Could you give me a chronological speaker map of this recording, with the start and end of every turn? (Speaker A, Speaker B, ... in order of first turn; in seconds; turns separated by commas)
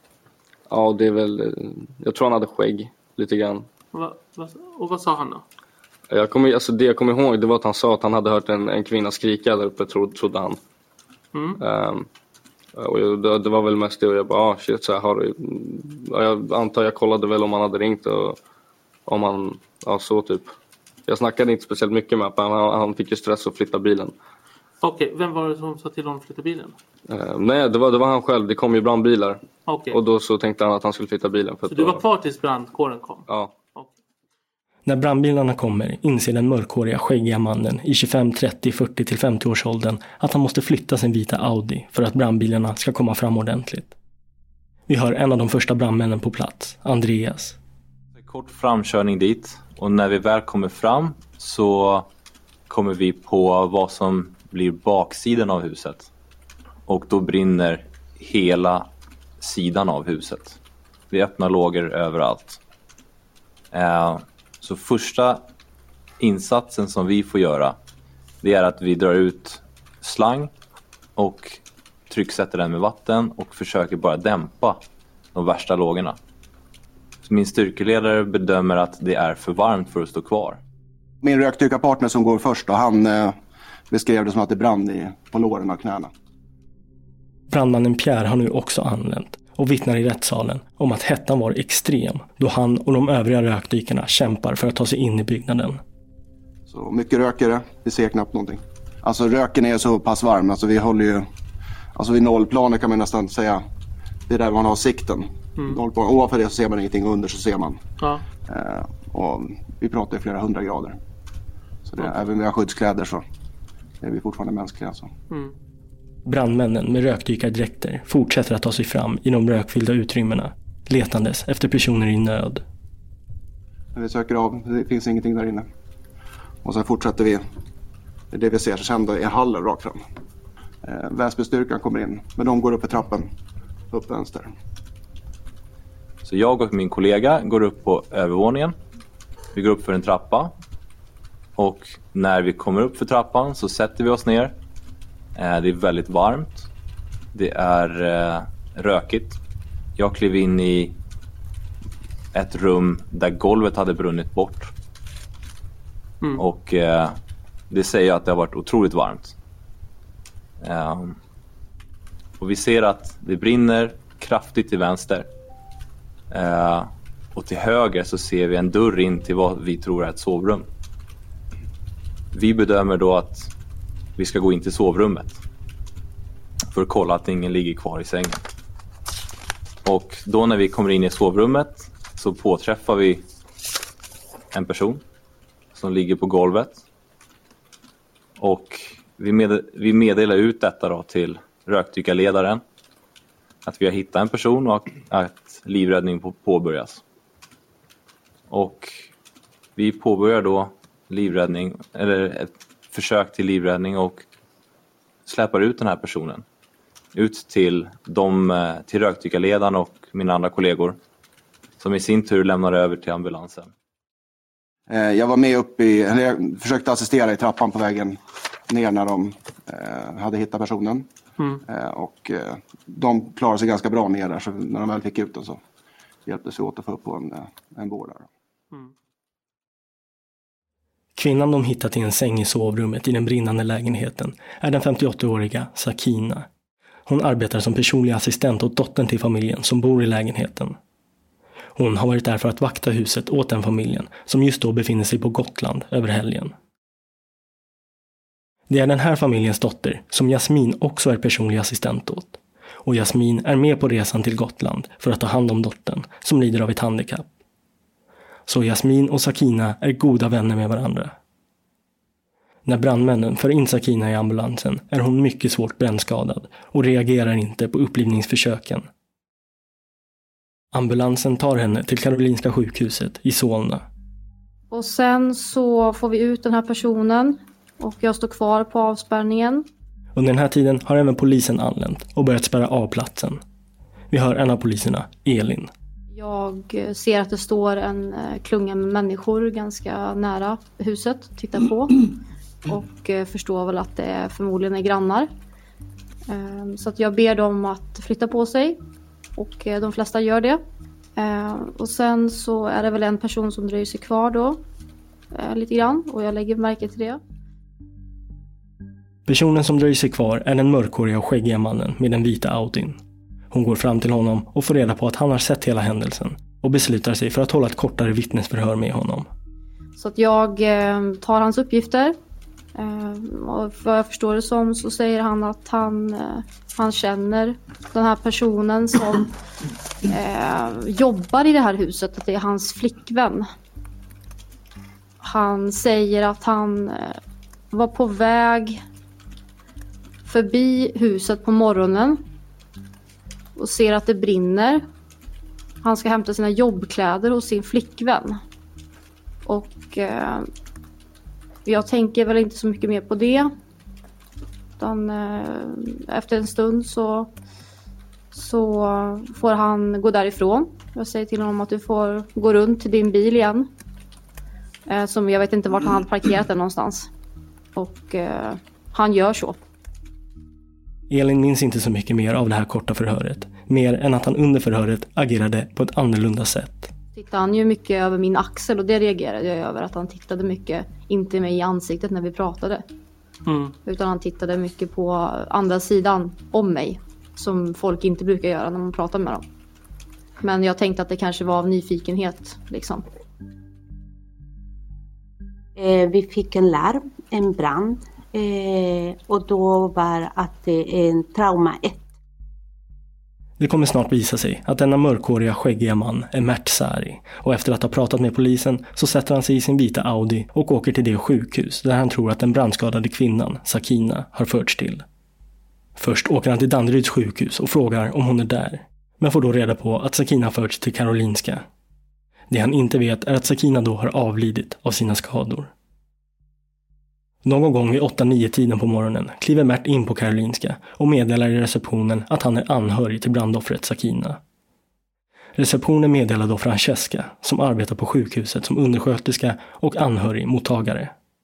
Speaker A: 0.7-3.7, Speaker B: 3.9-5.4, Speaker A: 6.1-10.6, Speaker A: 11.6-12.1, Speaker A: 12.8-18.4, Speaker A: 19.1-20.5, Speaker A: 21.1-24.1, Speaker B: 24.8-26.8, Speaker A: 27.1-29.4, Speaker B: 29.7-30.0, Speaker A: 29.9-32.0, Speaker B: 31.7-33.9, Speaker A: 33.3-33.5, Speaker C: 34.9-43.9, Speaker C: 44.9-47.6, Speaker D: 48.1-52.1, Speaker D: 52.7-56.1, Speaker D: 56.9-58.9, Speaker D: 59.4-60.6, Speaker D: 61.1-62.6, Speaker D: 63.7-65.4, Speaker D: 66.2-67.8, Speaker D: 68.4-70.5, Speaker D: 71.2-74.8, Speaker D: 75.3-76.2, Speaker D: 77.2-80.6, Speaker E: 81.2-86.1, Speaker C: 87.5-95.8, Speaker E: 96.7-101.3, Speaker E: 101.9-103.7, Speaker E: 104.3-107.8, Speaker E: 108.5-111.0, Speaker E: 111.8-113.2, Speaker B: 112.0-112.3, Speaker E: 114.0-115.1, Speaker C: 116.2-122.6, Speaker E: 123.9-125.7, Speaker E: 126.6-127.5, Speaker E: 128.3-130.0, Speaker E: 130.8-133.3, Speaker E: 133.9-134.6, Speaker D: 136.2-138.8, Speaker D: 139.5-140.5, Speaker D: 141.6-144.5, Speaker D: 145.3-146.7, Speaker D: 147.3-149.4, Speaker D: 150.0-151.0, Speaker D: 152.3-154.7, Speaker D: 156.3-157.2, Speaker D: 157.7-159.3, Speaker D: 160.6-161.2, Speaker D: 162.4-165.3, Speaker D: 166.3-170.7, Speaker D: 172.3-173.5, Speaker D: 174.2-175.4, Speaker D: 176.7-178.5, Speaker D: 179.8-183.2, Speaker D: 184.5-185.0, Speaker D: 185.7-186.8, Speaker D: 188.4-192.6, Speaker D: 193.6-197.0, Speaker D: 198.5-198.9, Speaker D: 199.8-204.2, Speaker D: 205.2-206.4, Speaker D: 207.1-211.0, Speaker D: 211.8-213.7, Speaker E: 214.9-221.1, Speaker E: 221.6-225.6, Speaker E: 226.2-228.3, Speaker C: 231.2-236.5, Speaker C: 237.1-240.8, Speaker C: 241.8-246.5, Speaker C: 248.7-257.3, Speaker C: 258.5-261.1, Speaker C: 262.6-268.9, Speaker C: 270.7-273.8, Speaker F: 274.7-279.6, Speaker C: 280.1-283.4, Speaker C: 284.1-285.7, Speaker F: 286.1-292.0, Speaker F: 292.7-295.3, Speaker F: 296.3-298.8, Speaker F: 299.4-300.6, Speaker F: 301.2-304.6, Speaker F: 305.3-307.2, Speaker C: 309.3-313.0, Speaker C: 313.5-319.3, Speaker F: 320.0-322.1, Speaker F: 322.8-329.3, Speaker F: 330.1-333.5, Speaker F: 335.2-337.2, Speaker F: 337.7-338.8, Speaker F: 340.2-342.2, Speaker F: 343.6-344.8, Speaker F: 345.8-348.4, Speaker F: 349.4-350.5, Speaker F: 351.6-353.5, Speaker F: 354.8-357.3, Speaker F: 358.3-363.7, Speaker F: 364.9-367.1, Speaker F: 367.8-369.6, Speaker C: 371.1-376.9, Speaker F: 377.1-382.8, Speaker B: 383.5-383.7, Speaker F: 383.9-389.4, Speaker F: 390.4-393.0, Speaker G: 395.8-402.1, Speaker C: 403.6-415.0, Speaker C: 416.0-421.6, Speaker C: 422.5-425.7, Speaker C: 427.4-434.4, Speaker C: 435.6-441.1